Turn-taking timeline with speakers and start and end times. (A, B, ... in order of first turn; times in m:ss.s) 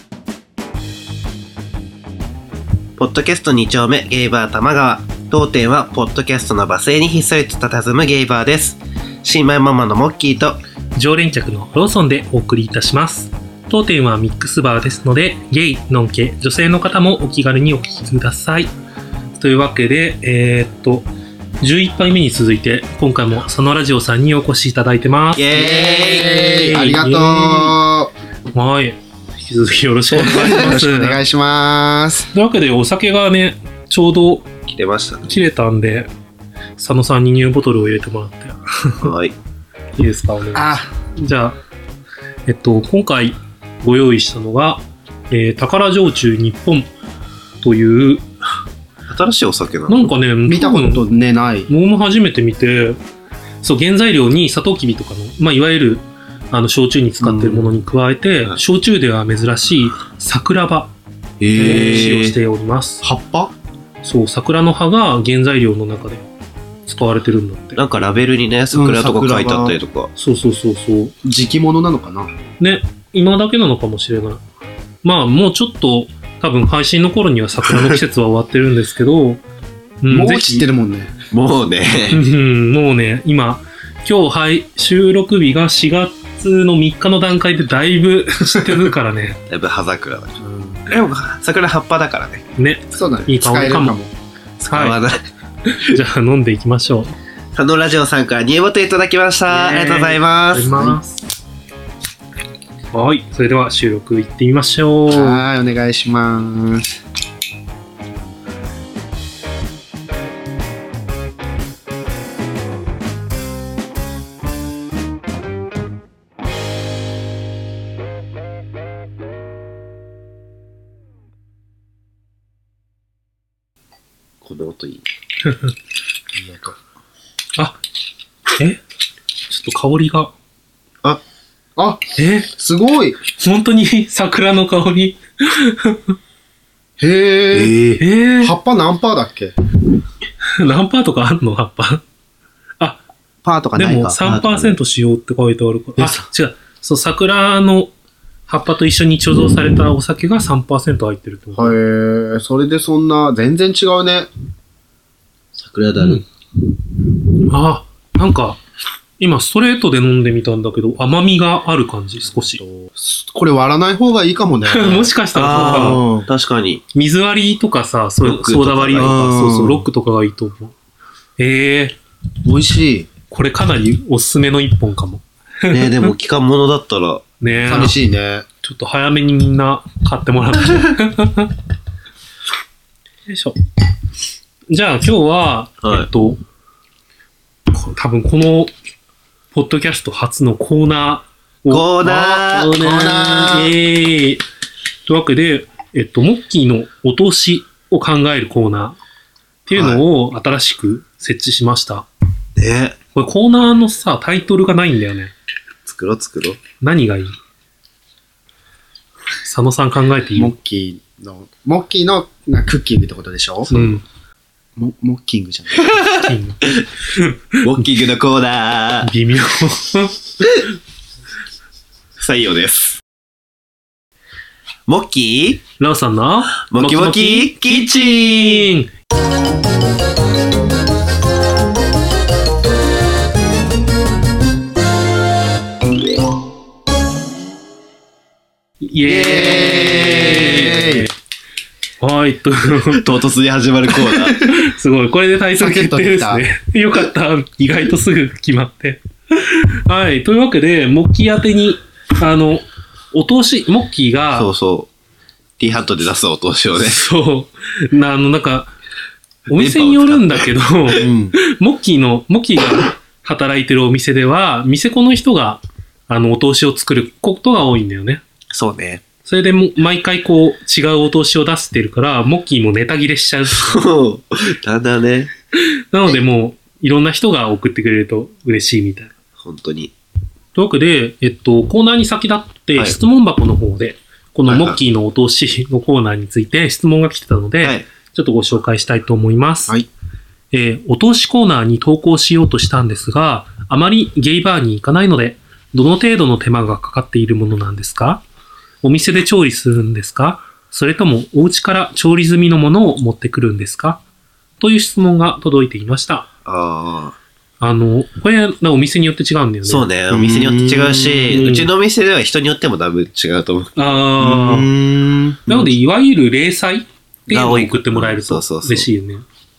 0:03.0-0:10.6 A
0:11.0-0:18.7 B
0:19.4-0:21.1 B
0:21.6-0:27.8 B
0:25.4-0:26.6 A
0:25.5-0:28.1 C
0:28.5-0:31.2 B
0:30.1-0:32.3 C
0:32.3-0:34.5 B
0:34.7-0:35.3 A
0:35.2-0:36.1 B
0:36.8-0:39.1 B
0:39.0-0:39.4 A
0:40.0-0:41.6 B
0:40.6-0:40.9 C
0:42.5-0:46.9 B
0:47.6-0:48.2 B
0:49.1-0:50.1 A
0:49.9-0:51.1 B
0:50.5-0:51.7 C
0:51.7-0:53.0 B
0:53.6-1:00.9 B
0:57.2-0:57.7 C
1:01.4-1:02.4 A
1:01.6-1:03.0 B
1:01.6-1:02.0 C
1:03.0-1:03.5 C
1:04.0-1:06.2 B
1:06.9-1:07.8 B
1:07.8-1:10.1 A
1:08.7-1:09.8 C
1:10.2-1:11.2 B
1:11.2-1:12.3 C
1:12.6-1:14.4 B
1:15.0-1:19.4 B
1:20.0-1:20.6 B
1:20.1-1:21.1 C
1:21.3-1:22.2 A
1:22.1-1:29.4 B
1:29.5-1:32.4 A
1:30.4-1:30.8 C
1:32.6-1:34.0 B
1:32.9-1:34.1 C
1:34.6-1:35.2 A
1:34.7-1:35.0 B
1:35.7-1:37.1 B
1:37.6-1:40.8 A
1:39.5-1:41.2 B
1:40.6-1:41.0 C
1:42.9-1:45.4 B
1:45.1-1:47.0 C
2:04.4-2:05.0 A
2:06.3-2:06.8 C
2:09.5-2:10.3 B
2:11.8-2:13.2 C
2:12.2-2:12.5 B
2:13.4-2:16.2 B
2:17.0-2:17.8 C
2:17.5-2:18.0 A
2:18.0-2:18.6 B
2:18.4-2:19.5 C
2:20.5-2:22.0 B
2:23.4-2:24.2 C
2:23.8-2:27.9 B
2:24.2-2:24.8 A
2:26.0-2:26.2 C
2:28.5-2:31.8 B
2:31.6-2:34.3 C
2:35.5-2:36.2 A
2:36.0-2:36.2 B
2:37.5-2:38.6 B
2:39.2-2:42.6 B
2:42.2-2:46.3 C
2:44.7-2:46.0 B
2:45.3-2:46.8 A
2:46.9-2:50.7 B
2:48.2-2:49.1 A
2:49.0-2:49.8 C
2:51.4-2:52.0 B
2:52.4-2:53.1 C
2:53.3-2:56.1 B
2:55.7-2:57.9 A
2:57.4-2:58.0 B
2:57.6-2:58.4 C
2:58.6-3:01.5 B
3:03.3-3:03.6 B
3:04.7-3:06.4 B
3:05.8-3:06.1 A
3:07.7-3:08.7 B
3:09.5-3:12.0 B
3:11.7-3:12.8 A
3:12.0-3:13.7 C
3:12.5-3:14.4 B
3:15.1-3:19.0 B
3:19.7-3:22.1 B
3:19.8-3:20.0 A
3:22.6-3:23.0 A
3:23.1-3:25.3 B
3:25.8-3:26.6 A
3:26.8-3:27.4 B
3:29.4-3:30.5 B
3:30.4-3:33.7 C
3:33.7-3:34.0 B
3:33.7-3:34.0 A
3:34.8-3:36.0 C
3:35.8-3:36.8 A
3:36.2-3:37.8 B
3:37.6-3:39.1 A
3:39.0-3:40.4 B
3:42.2-3:43.0 A
3:44.9-3:45.6 A
3:45.8-3:48.9 B
3:46.7-3:48.7 A
3:58.8-4:01.1 B
3:59.1-4:01.1 C
3:59.3-4:00.5 A
4:02.0-4:03.1 B
4:02.9-4:04.4 A
4:04.3-4:14.5 B
4:05.6-4:06.4 C
4:14.4-4:14.9 A
4:15.6-4:17.1 A
4:16.8-4:18.7 B
4:19.5-4:28.2 B
4:19.5-4:20.5 A
4:21.0-4:21.4 C
4:28.5-4:29.0 A
4:29.2-4:33.8 B
4:33.5-4:35.3 A
4:35.9-4:39.1 B
4:39.4-4:39.9 A
4:40.6-4:49.8 B
4:44.5-4:44.8 A
4:50.5-4:58.2 B
4:58.8-5:04.0 B
5:04.6-5:06.3 B
5:06.4-5:07.2 A
5:07.6-5:09.9 B
5:09.6-5:14.0 A
5:10.1-5:11.4 C
5:11.3-5:11.7 B
5:13.8-5:14.7 B
5:14.2-5:15.4 C
5:15.5-5:15.7 A
5:15.5-5:19.2 B
5:17.3-5:18.9 A